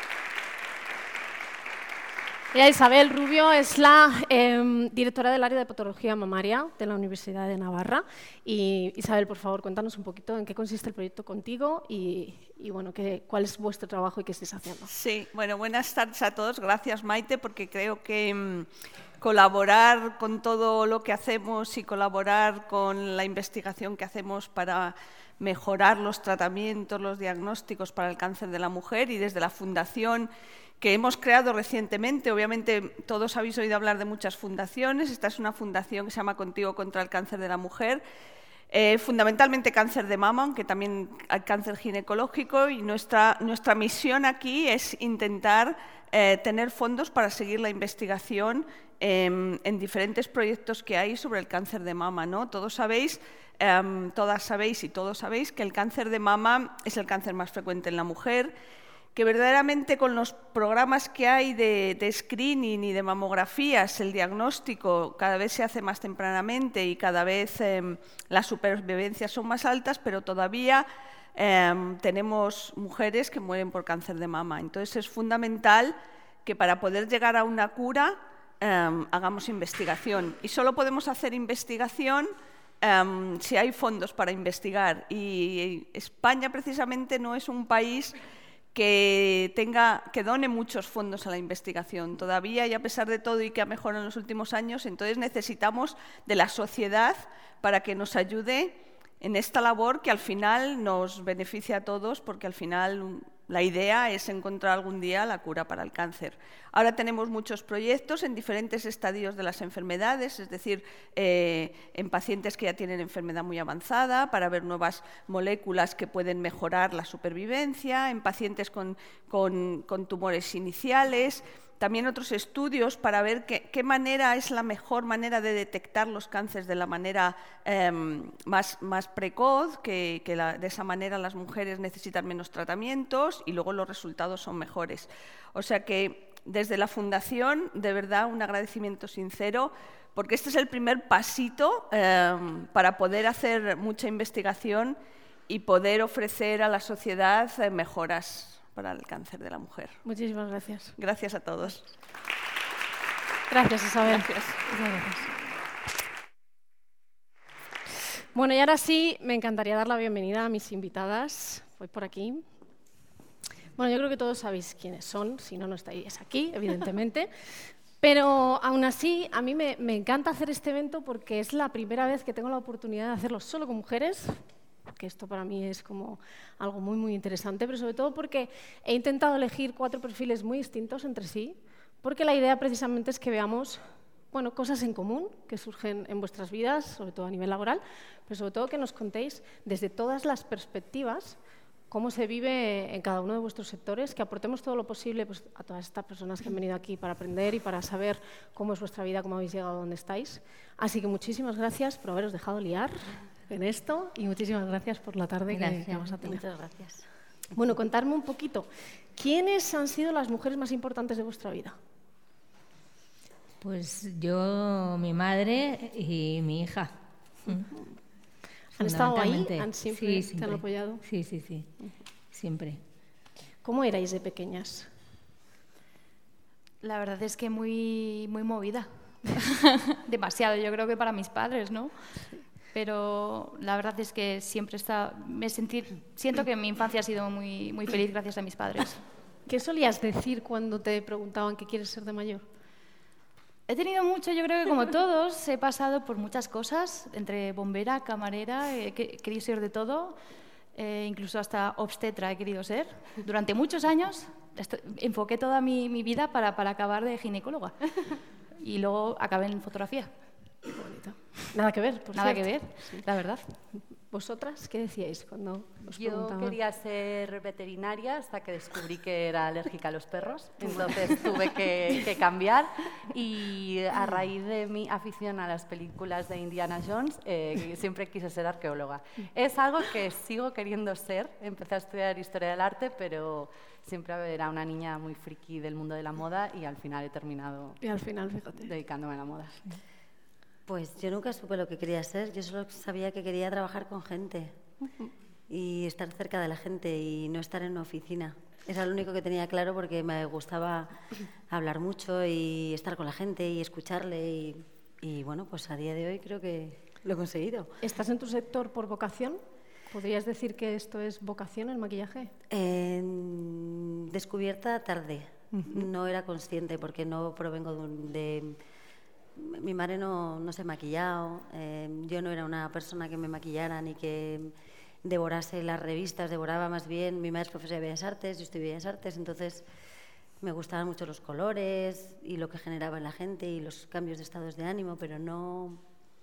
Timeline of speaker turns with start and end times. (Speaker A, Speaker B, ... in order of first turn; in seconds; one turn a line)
Speaker A: 2.5-14.9
Speaker B: 14.9-30.3
Speaker B: 30.8-38.0
Speaker B: 38.7-58.5
Speaker B: 59.1-88.2
Speaker B: 88.7-145.0
Speaker B: 145.5-150.0
Speaker A: 150.0-151.0
Speaker B: 151.0-151.9
Speaker A: 153.5-155.3
Speaker B: 154.1-154.6
Speaker A: 158.3-162.4
Speaker A: 163.8-167.3
Speaker A: 168.0-191.4
Speaker A: 191.9-206.4
Speaker C: 205.5-206.2
Speaker D: 206.2-207.1
Speaker A: 207.5-211.8
Speaker C: 213.6-216.9
Speaker C: 217.5-217.7
Speaker A: 218.8-221.0
Speaker C: 218.8-221.7
Speaker C: 222.3-222.8
Speaker A: 223.6-224.9
Speaker E: 226.8-239.0
Speaker A: 239.5-242.4
Speaker E: 243.7-250.2
Speaker E: 250.7-260.1
Speaker A: 260.7-263.0
Speaker E: 262.1-263.5
Speaker A: 264.1-266.6
Speaker F: 265.9-287.8
Speaker A: 270.6-271.0
Speaker A: 287.8-288.7
Speaker F: 288.6-289.8
Speaker D: 290.7-294.6
Speaker D: 295.5-307.7
Speaker A: 307.8-312.3
Speaker D: 312.5-318.6
Speaker A: 315.5-315.8
Speaker D: 319.4-329.6
Speaker D: 330.4-335.8